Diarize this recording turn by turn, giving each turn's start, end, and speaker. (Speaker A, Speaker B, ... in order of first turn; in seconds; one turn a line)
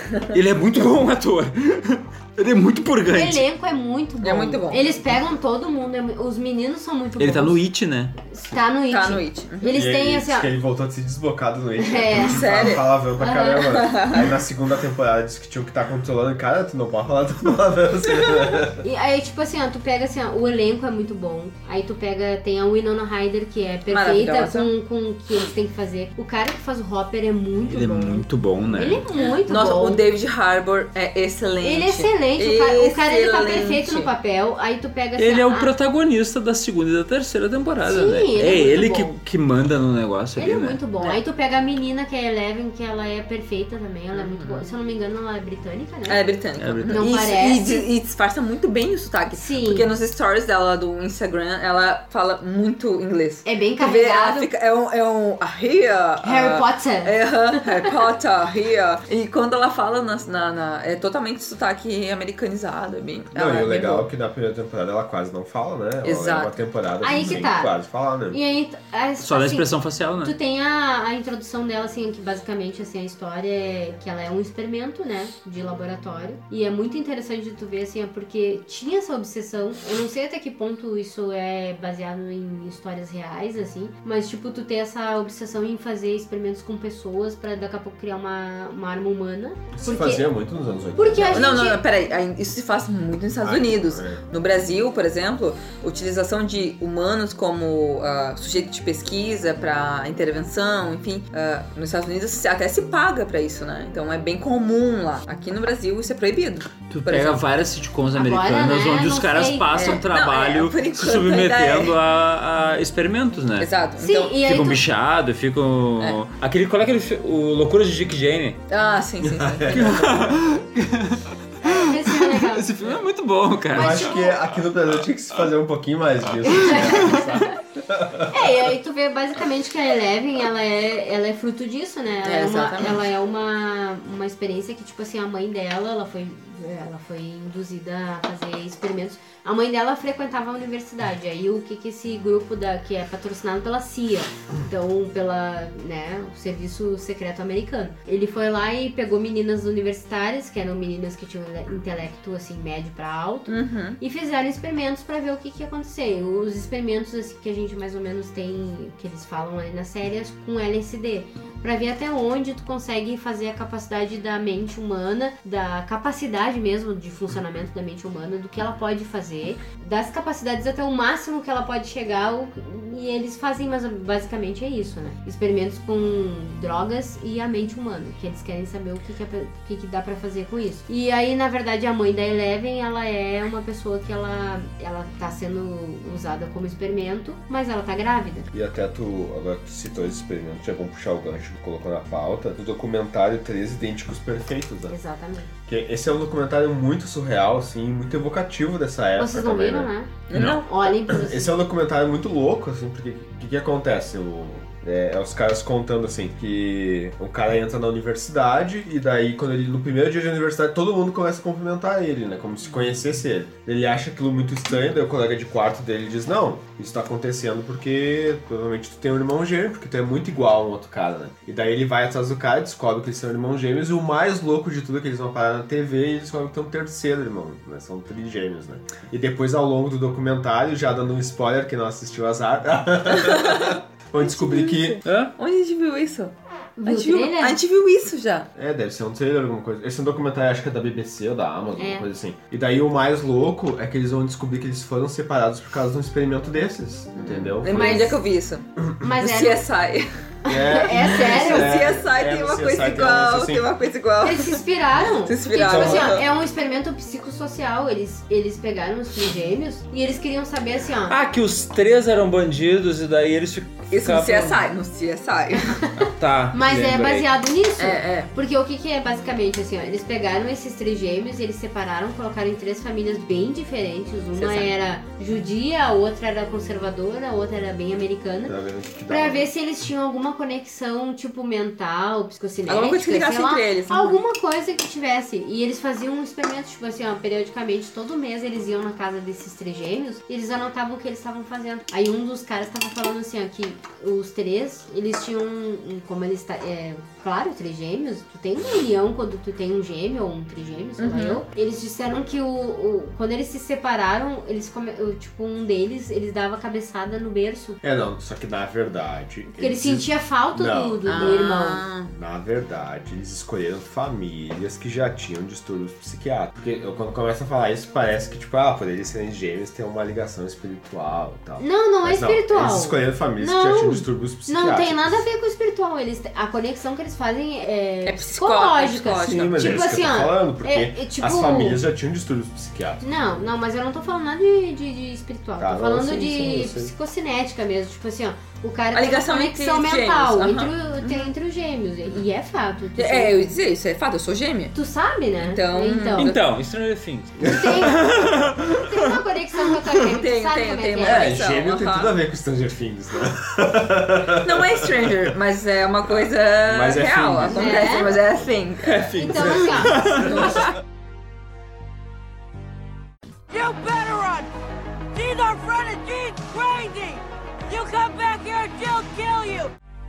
Speaker A: 0.3-3.5
Speaker B: 3.1-7.6
Speaker C: 4.2-4.8
Speaker A: 7.2-8.1
Speaker B: 8.3-10.5
Speaker C: 8.9-9.7
Speaker D: 9.7-18.8
Speaker B: 11.8-12.4
Speaker C: 12.2-12.8
Speaker B: 13.2-13.7
Speaker C: 13.8-14.3
Speaker B: 18.8-30.0
Speaker C: 23.9-24.7
Speaker A: 27.7-29.0
Speaker C: 29.2-34.1
Speaker B: 31.6-35.7
Speaker A: 35.1-40.8
Speaker B: 37.8-39.1
Speaker B: 40.4-46.2
Speaker C: 44.1-44.6
Speaker C: 46.1-64.1
Speaker A: 46.6-47.0
Speaker B: 46.9-47.9
Speaker B: 49.3-49.9
Speaker B: 53.4-54.5
Speaker B: 56.2-57.1
Speaker D: 63.3-68.4
Speaker C: 66.0-66.5
Speaker B: 67.0-67.7
Speaker B: 68.3-90.3
Speaker A: 69.2-70.3
Speaker D: 89.7-91.5
Speaker B: 91.0-91.8
Speaker C: 91.3-107.4
Speaker D: 93.4-94.2
Speaker A: 106.9-113.7
Speaker B: 108.1-110.0
Speaker C: 109.7-111.9
Speaker C: 113.6-114.3
Speaker B: 114.0-114.8
Speaker A: 114.4-118.6
Speaker C: 118.7-120.1
Speaker D: 119.2-120.4
Speaker A: 119.7-124.2
Speaker B: 121.6-122.7
Speaker D: 123.7-128.4
Speaker B: 123.7-124.3
Speaker B: 126.5-127.2
Speaker B: 128.3-188.5
Speaker C: 132.2-133.0
Speaker C: 153.5-154.0
Speaker D: 188.5-194.9
Speaker B: 194.9-195.5
Speaker D: 195.7-200.5
Speaker B: 199.2-201.5
Speaker C: 200.3-200.7
Speaker D: 201.1-235.0
Speaker C: 233.1-236.3
Speaker A: 235.0-235.3
Speaker B: 236.8-237.6
Speaker C: 236.8-238.5
Speaker D: 238.5-248.1
Speaker B: 241.8-242.1
Speaker C: 247.1-248.7
Speaker B: 247.7-248.2
Speaker D: 248.8-249.1
Speaker B: 249.0-249.6
Speaker C: 249.2-250.0
Speaker B: 250.4-251.8
Speaker D: 250.5-253.7
Speaker C: 250.9-254.6
Speaker B: 254.2-261.2
Speaker C: 255.2-256.2
Speaker D: 255.6-256.2
Speaker A: 261.1-264.7
Speaker C: 263.9-265.8
Speaker A: 266.0-267.3
Speaker B: 266.5-278.5
Speaker C: 267.8-268.3
Speaker C: 274.3-274.7
Speaker D: 278.4-279.5
Speaker B: 279.1-307.8
Speaker C: 282.7-284.2
Speaker C: 301.0-301.4
Speaker D: 307.8-311.5
Speaker B: 309.5-311.8
Speaker C: 311.1-312.1
Speaker D: 312.1-325.2
Speaker B: 321.6-331.8
Speaker C: 328.1-329.9
Speaker D: 329.2-333.0
Speaker B: 333.0-343.5
Speaker D: 335.6-336.9
Speaker C: 338.9-341.3
Speaker C: 342.9-344.7
Speaker B: 344.7-346.3
Speaker C: 345.5-346.4
Speaker A: 346.2-348.8
Speaker B: 347.4-348.1
Speaker D: 347.4-348.4
Speaker B: 348.7-351.3
Speaker C: 350.1-352.1
Speaker D: 351.0-355.3
Speaker C: 354.4-359.1
Speaker D: 356.1-360.6
Speaker B: 357.5-358.1
Speaker A: 358.9-360.6
Speaker B: 359.1-360.0
Speaker C: 360.1-360.7
Speaker E: 363.5-364.5
Speaker E: 365.1-369.7